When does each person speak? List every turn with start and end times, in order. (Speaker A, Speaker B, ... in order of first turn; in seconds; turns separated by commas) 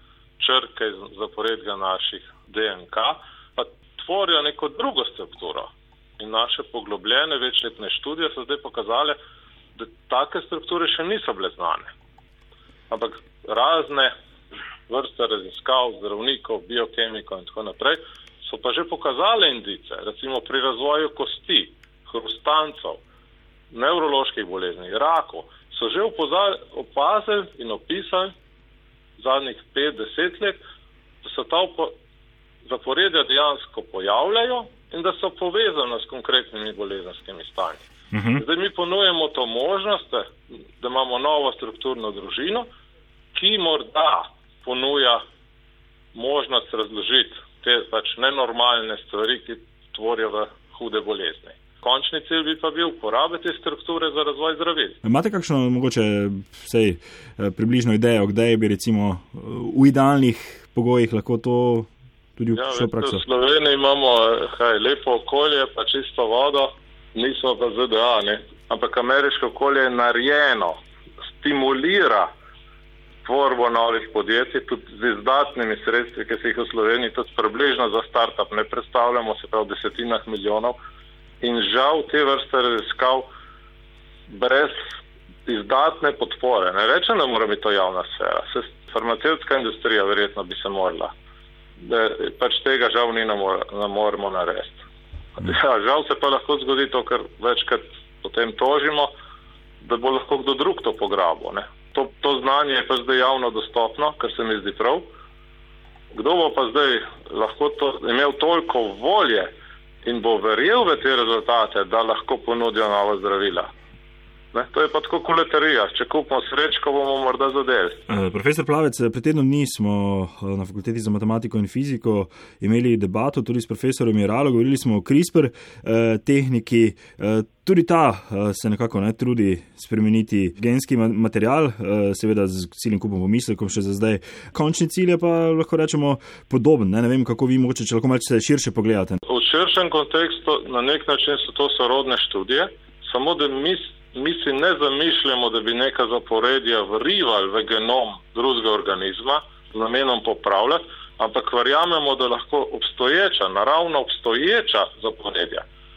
Speaker A: 0.4-9.2, Speaker A: 9.8-11.9, Speaker A: 12.9-14.1, Speaker A: 14.9-23.0, Speaker A: 23.7-28.3, Speaker A: 29.2-30.6, Speaker A: 31.2-31.9, Speaker A: 32.6-42.7, Speaker B: 38.1-38.4, Speaker A: 43.3-45.2, Speaker A: 46.1-55.0, Speaker B: 55.0-63.2, Speaker A: 62.5-70.8, Speaker A: 71.4-72.3, Speaker A: 73.2-80.8, Speaker A: 81.4-83.3, Speaker A: 84.3-84.8, Speaker A: 85.5-91.1, Speaker A: 91.8-94.8, Speaker A: 95.4-99.1, Speaker A: 99.8-105.0, Speaker A: 106.1-109.5, Speaker A: 110.0-113.7, Speaker A: 114.5-118.0, Speaker B: 118.1-139.2, Speaker A: 139.3-155.7